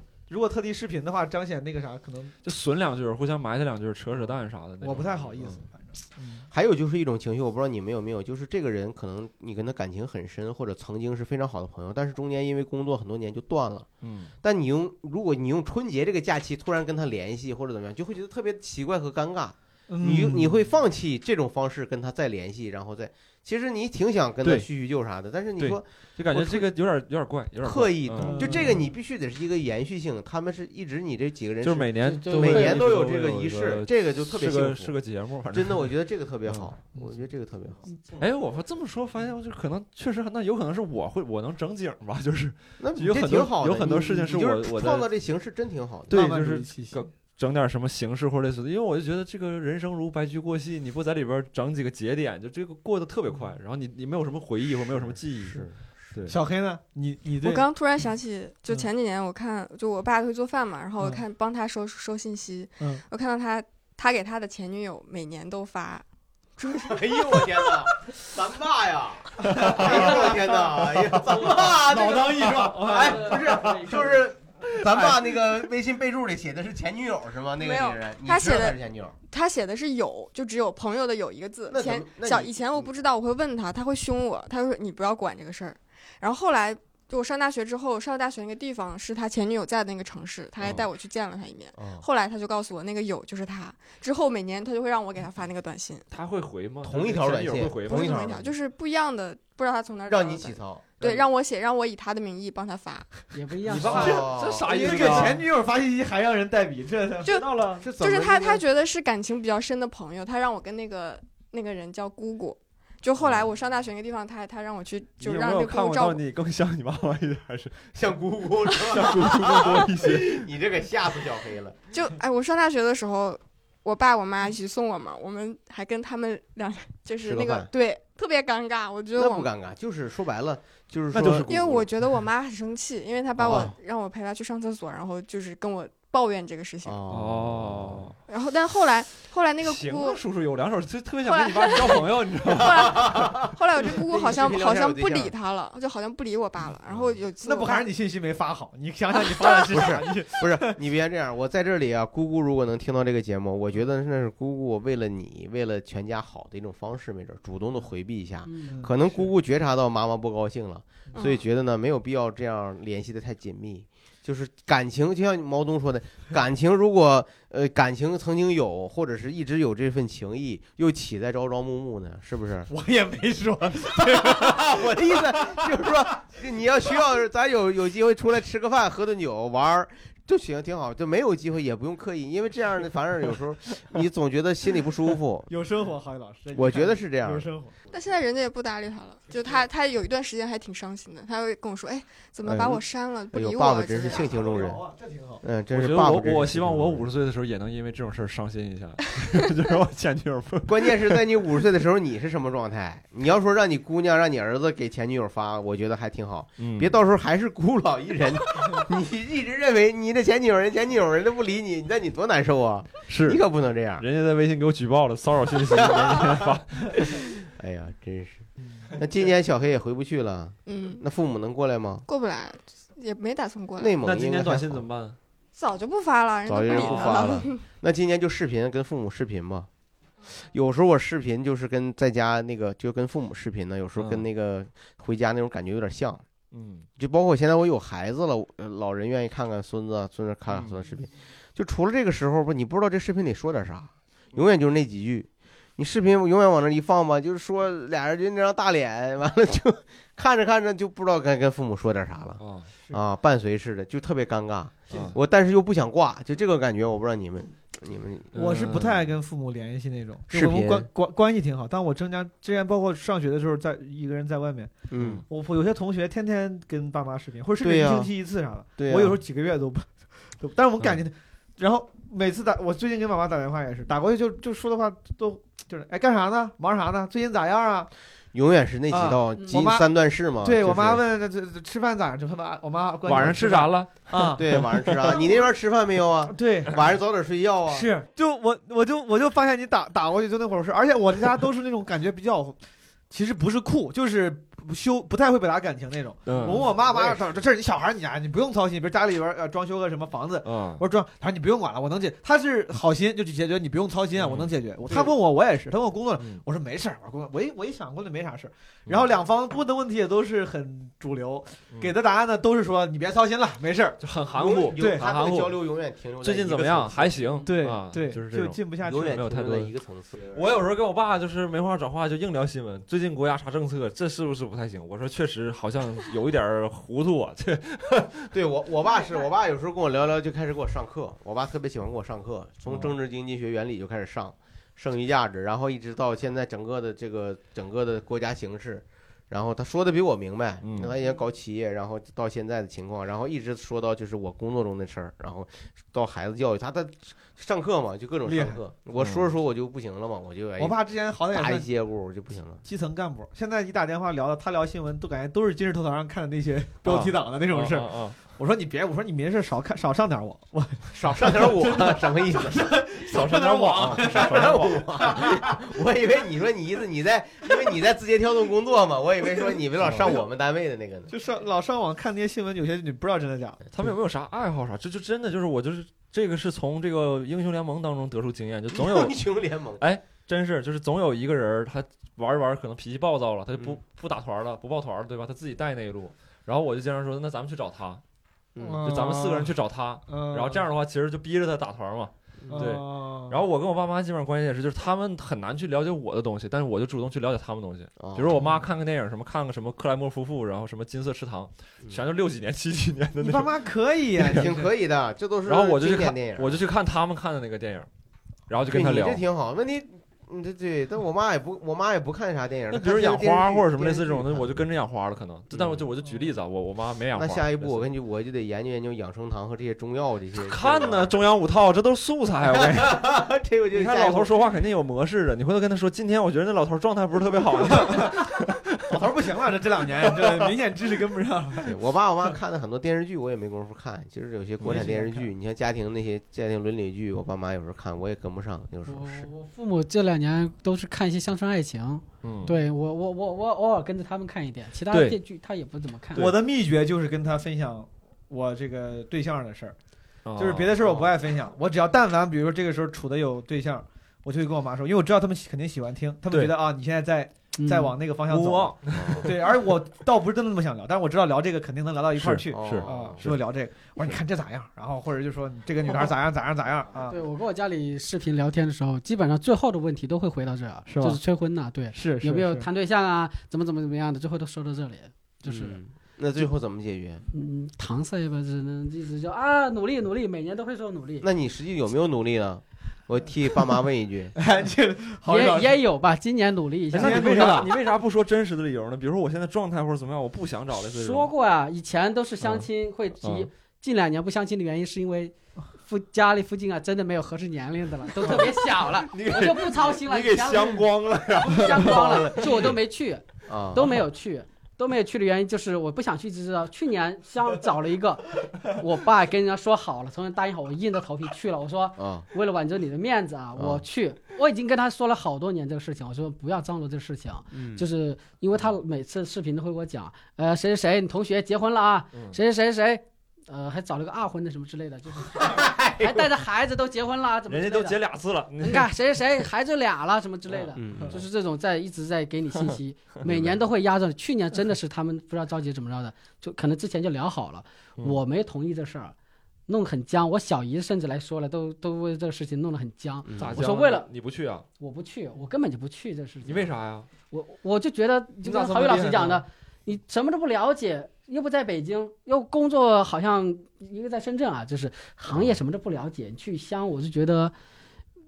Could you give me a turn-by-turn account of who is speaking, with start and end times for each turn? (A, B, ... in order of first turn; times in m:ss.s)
0:00.3-0:02.4 A
0:02.4-0:05.6 B
0:04.8-0:06.5 A
0:06.5-0:13.9 C
0:14.0-0:14.3 B
0:14.4-0:26.7 C
0:19.9-0:20.6 A
0:25.6-0:28.8 B
0:27.6-0:35.0 C
0:28.2-0:28.9 A
0:31.6-0:35.9 B
0:32.0-0:32.9 D
0:35.5-0:38.2 C
0:38.2-0:45.1 B
0:42.8-0:46.2 C
0:46.1-0:56.4 B
0:46.1-0:47.1 A
0:55.0-0:56.1 C
0:56.3-0:57.7 A
0:57.4-1:06.0 E
1:06.6-1:07.8 E
1:06.8-1:19.2 C
1:09.4-1:14.2 A
1:09.6-1:09.9 B
1:12.9-1:14.2 D
1:14.9-1:15.4 A
1:17.6-1:36.0 E
1:21.7-1:22.9 C
1:31.8-1:32.0 C
1:36.1-1:38.5 B
1:36.8-1:38.4 C
1:37.8-1:43.1 E
1:40.1-1:41.2 C
1:43.3-1:44.3 D
1:43.7-1:45.5 B
1:43.7-1:45.3 C
1:43.8-1:47.9 A
1:47.2-1:56.2 E
1:47.8-1:48.6 C
1:55.2-1:58.1 B
1:58.0-2:01.8 C
1:58.8-2:00.5 B
1:58.8-1:59.8 E
2:01.9-2:09.5 E
2:07.2-2:07.7 C
2:09.2-2:11.9 C
2:11.1-2:11.5 B
2:11.4-2:17.0 E
2:13.4-2:13.7 C
2:13.5-2:13.7 B
2:16.8-2:18.1 C
2:17.1-2:18.2 B
2:18.3-2:20.2 E
2:19.6-2:23.5 B
2:21.2-2:27.9 E
2:22.6-2:25.3 C
2:26.9-2:27.2 C
2:27.4-2:30.8 A
2:29.2-2:30.0 E
2:29.7-2:52.7 C
2:38.5-2:38.8 D
2:38.7-2:39.3 A
2:41.1-2:41.4 E
2:52.7-2:55.9 A
2:54.0-3:05.5 C
3:05.5-3:07.8 A
3:06.5-3:07.5 C
3:07.9-3:14.3 E
3:12.4-3:12.8 C
3:13.3-3:14.8 C
3:14.0-3:15.4 A
3:15.4-3:17.1 C
3:15.7-3:21.2 B
3:20.7-3:34.0 C
3:26.6-3:26.9 B
3:33.1-3:33.4 B
3:34.0-3:37.2 B
3:35.7-3:42.0 C
3:40.7-3:41.0 E
3:42.1-3:43.9 E
3:43.8-3:44.8 C
3:44.0-3:45.2 B
3:45.6-3:47.6 E
3:46.5-3:49.7 C
3:46.6-3:47.5 B
3:50.3-3:56.2 C
3:54.0-3:54.2 B
3:56.5-3:56.9 B
3:57.0-4:18.3 C
4:12.4-4:12.7 B
4:14.9-4:15.2 B
4:18.3-4:19.1 B
4:18.4-4:24.7 A
4:20.3-4:20.9 C
4:24.9-4:25.2 C
4:25.0-4:25.2 B
4:25.3-4:37.9 A
4:27.6-4:28.1 C
4:28.8-4:29.2 C
4:38.3-4:41.0 C
4:38.9-4:39.9 A
4:40.4-4:45.4 A
4:43.0-4:45.1 B
4:44.3-4:47.9 C
4:46.3-4:46.8 A
4:47.7-4:52.6 A
4:53.1-5:14.0 A
4:56.3-4:56.7 B
4:56.4-4:57.2 C
5:00.4-5:00.8 B
5:04.2-5:04.5 B
5:04.9-5:05.2 C
5:06.2-5:06.4 B
5:14.0-5:15.6 B
5:14.3-5:17.2 C
5:14.8-5:15.1 A
5:16.2-5:19.7 B
5:17.5-5:19.2 A
5:18.8-5:20.4 C
5:20.3-5:28.3 B
5:28.3-5:50.8 C
5:40.6-5:40.9 B
5:48.3-5:48.6 A
5:49.0-5:49.3 B
5:50.6-5:51.7 A
5:51.3-5:52.6 C
5:52.6-6:05.3 A
5:56.8-5:58.2 B
6:00.9-6:02.8 C
6:03.0-6:05.0 B
6:03.8-6:11.1 C
6:09.8-6:10.2 B
6:11.1-6:13.6 A
6:13.7-6:19.2 B
6:18.7-6:19.8 C
6:19.8-6:28.0 B
6:28.6-6:28.8 C
6:28.6-6:29.5 A
6:28.8-6:43.7 B
6:30.1-6:30.6 A
6:32.4-6:32.7 C
6:32.5-6:33.4 A
6:38.0-6:38.4 C
6:38.4-6:38.6 A
6:43.2-6:44.7 A
6:44.2-6:44.5 B
6:44.2-6:46.6 C
6:45.5-6:47.9 B
6:48.5-6:49.2 B
6:48.7-6:54.5 C
6:52.7-6:57.9 B
6:55.5-6:55.8 C
6:57.1-7:01.1 C
7:00.4-7:03.1 B
7:02.5-7:04.3 C
7:03.7-7:08.7 B
7:07.8-7:08.1 A
7:08.9-7:11.7 A
7:11.6-7:19.3 C
7:14.6-7:15.3 A
7:18.9-7:26.3 D
7:22.2-7:22.6 B
7:24.9-7:25.2 B
7:26.1-7:26.4 B
7:26.2-7:29.8 A
7:30.2-7:31.1 B
7:30.4-7:47.2 A
7:36.3-7:36.6 B
7:37.6-7:37.9 D
7:38.3-7:39.6 B
7:39.0-7:39.3 C
7:42.1-7:43.4 B
7:42.5-7:43.2 C
7:47.1-7:55.8 D
7:50.9-7:51.2 A
7:51.9-7:52.7 A
7:55.4-7:57.2 C
7:57.3-8:01.3 D
8:01.2-8:04.4 C
8:04.4-8:05.8 A
8:05.3-8:07.6 D
8:06.9-8:07.7 A
8:06.9-8:11.3 B
8:10.8-8:48.0 D
8:12.4-8:12.7 B
8:13.2-8:13.5 B
8:18.2-8:22.6 B
8:21.8-8:22.6 C
8:23.5-8:24.0 C
8:32.0-8:32.3 C
8:33.6-8:33.8 C
8:37.5-8:37.8 C
8:45.4-8:46.3 C
8:47.5-8:48.9 B
8:48.6-8:59.1 D
8:50.8-8:51.2 C
8:53.2-8:53.6 C
8:59.7-9:04.1 D
9:03.2-9:03.6 C
9:03.4-9:04.6 B
9:04.8-9:06.7 D
9:06.4-9:07.1 B
9:07.3-9:17.5 D
9:08.4-9:09.4 B